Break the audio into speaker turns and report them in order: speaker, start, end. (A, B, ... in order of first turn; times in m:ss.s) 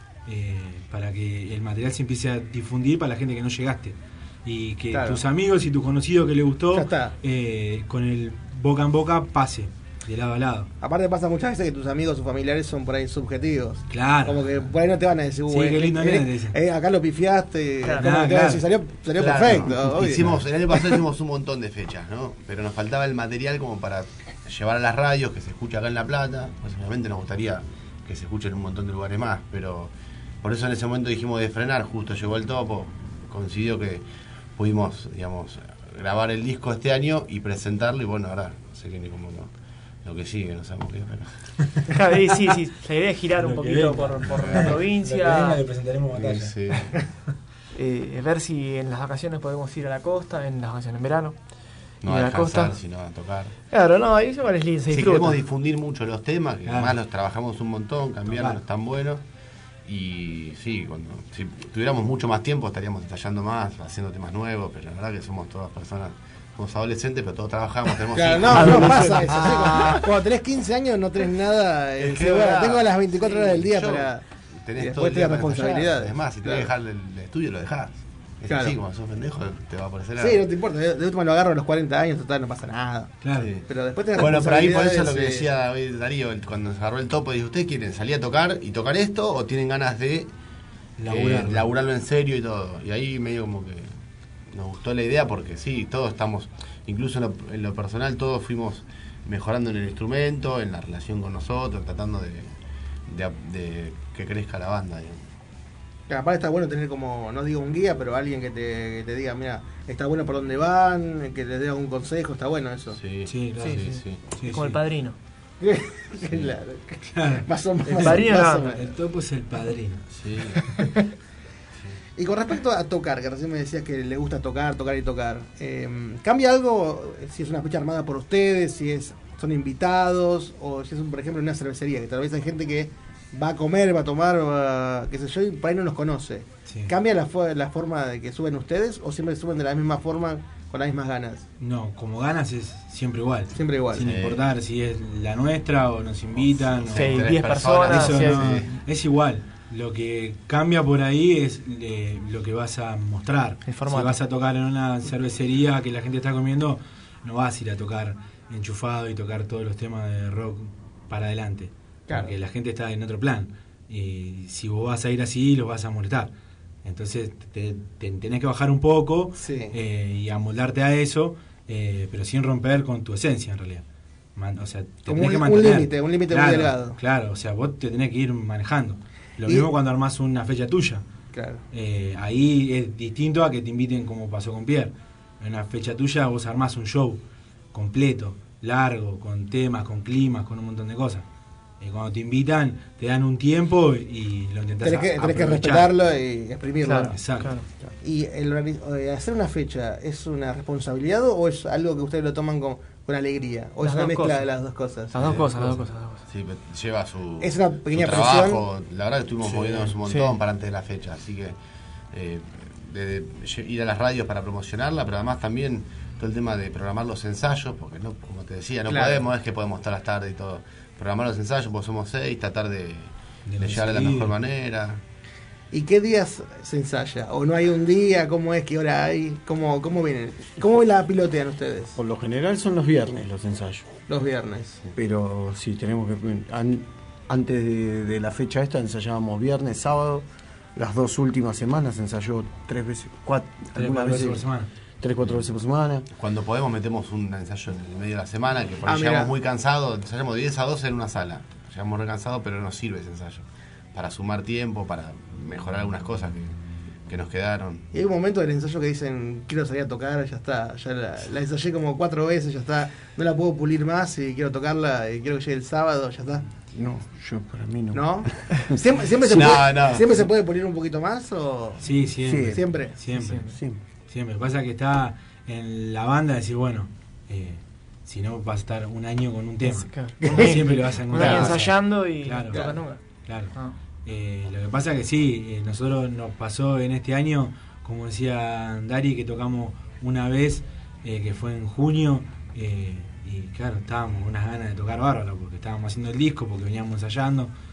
0:00.2-0:10.7 A
0:04.9-0:05.2 B
0:06.7-0:07.2 B
0:10.8-0:20.3 B
0:13.9-0:14.6 A
0:15.5-0:16.5 A
0:17.8-0:18.1 C
0:18.0-0:18.6 A
0:19.1-0:34.0 D
0:19.3-0:19.6 A
0:34.6-0:39.5 D
0:40.0-0:41.3 D
0:41.9-0:45.6 C
0:43.4-0:46.8 A
0:46.1-0:46.9 D
0:47.7-0:51.3 C
0:52.0-0:53.5 D
0:52.1-0:52.8 C
0:53.7-0:55.4 C
0:54.9-0:59.2 D
0:56.6-0:57.0 A
0:58.3-0:58.6 A
0:59.8-1:10.1 D
1:08.1-1:14.2 B
1:12.0-1:20.4 D
1:14.8-1:16.7 B
1:18.4-1:18.8 B
1:20.2-1:25.5 B
1:23.2-1:23.5 A
1:23.3-1:30.3 D
1:31.0-1:31.7 A
1:31.0-1:33.9 D
1:34.5-1:42.5 D
1:43.1-1:45.2 D
1:46.1-1:53.0 B
1:52.9-1:54.3 D
1:53.2-1:54.8 A
1:53.6-1:55.2 C
1:55.6-1:58.9 B
1:56.3-1:56.5 D
1:57.1-2:00.0 A
1:58.0-1:58.7 C
2:00.0-2:00.6 D
2:02.2-2:21.5 B
2:16.7-2:16.9 A
2:21.6-2:46.3 A
2:23.5-2:24.1 B
2:24.0-2:24.4 D
2:26.3-2:28.8 D
2:26.9-2:28.4 C
2:33.6-2:34.2 C
2:46.8-2:53.8 A
2:49.4-2:49.7 B
2:54.4-3:01.0 A
2:55.1-2:57.0 B
3:01.3-3:01.6 B
3:01.7-3:07.2 A
3:07.7-3:11.2 A
3:11.8-3:15.9 A
3:14.8-3:17.2 B
3:16.8-3:17.7 C
3:17.1-3:17.5 A
3:17.8-3:25.3 B
3:23.8-3:24.4 C
3:25.1-3:26.2 C
3:25.2-3:31.6 D
3:27.4-3:28.6 B
3:29.5-3:29.8 B
3:32.1-3:45.0 D
3:38.9-3:39.2 B
3:43.5-3:44.3 A
3:45.7-3:52.0 B
3:52.0-3:53.9 E
3:54.1-3:54.8 B
3:55.0-4:04.4 E
4:03.7-4:04.7 A
4:05.0-4:06.0 E
4:05.2-4:05.5 D
4:06.1-4:16.6 D
4:08.8-4:09.3 B
4:17.1-4:17.9 D
4:17.9-4:27.0 B
4:26.7-4:28.1 E
4:27.9-4:31.8 B
4:29.2-4:30.3 D
4:31.8-4:33.5 A
4:32.5-4:33.0 B
4:33.1-4:33.5 C
4:33.5-4:33.8 E
4:34.1-4:42.6 A
4:39.6-4:43.8 C
4:43.2-4:43.5 A
4:44.0-4:57.5 A